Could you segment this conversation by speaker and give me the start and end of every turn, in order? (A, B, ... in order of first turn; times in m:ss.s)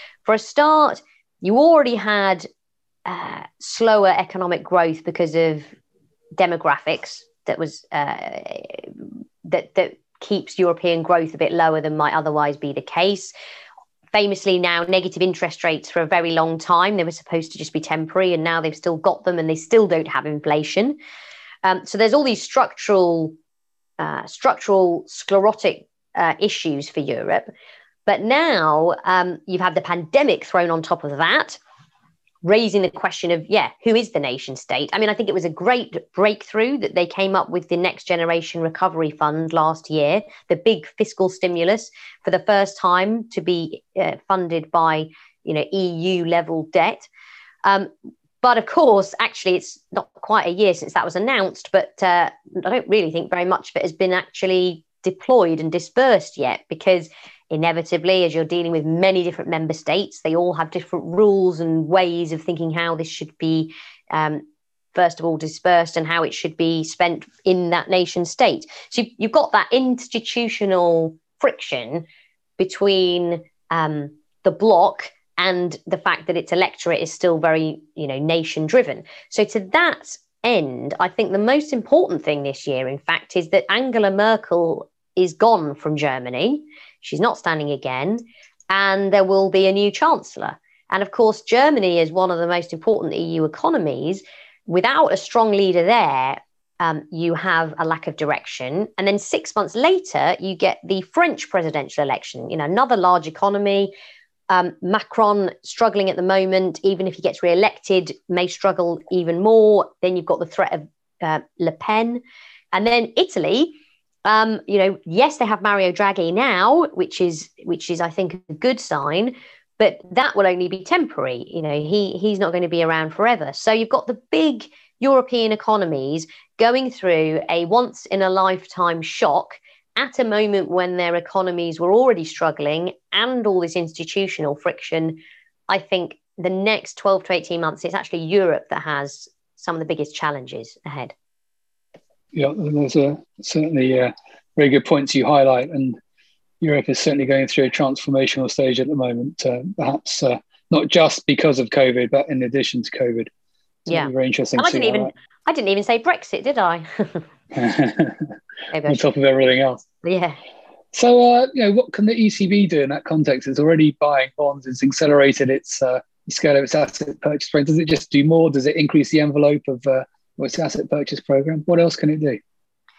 0:00.2-0:02.5 A
0:03.1-0:05.7 A
0:06.4-0:13.3 A
0:14.1-0:21.0 A
0:21.6-0:23.4 A
0:24.0-0:27.5 A
0:28.1-0:31.6 A
0:32.4-0:47.1 A
0:47.6-0:47.9 A
0:48.4-1:04.4 A
1:04.9-1:12.1 A
1:12.6-1:43.9 A
1:44.5-2:21.1 A
2:22.3-2:26.0 B
2:26.6-2:33.3 B
2:33.9-2:37.3 A
2:33.9-2:35.1 B
2:37.5-2:38.3 B
2:38.7-2:39.0 A
2:38.9-2:39.8 B
2:40.0-2:40.4 A
2:40.9-2:52.4 B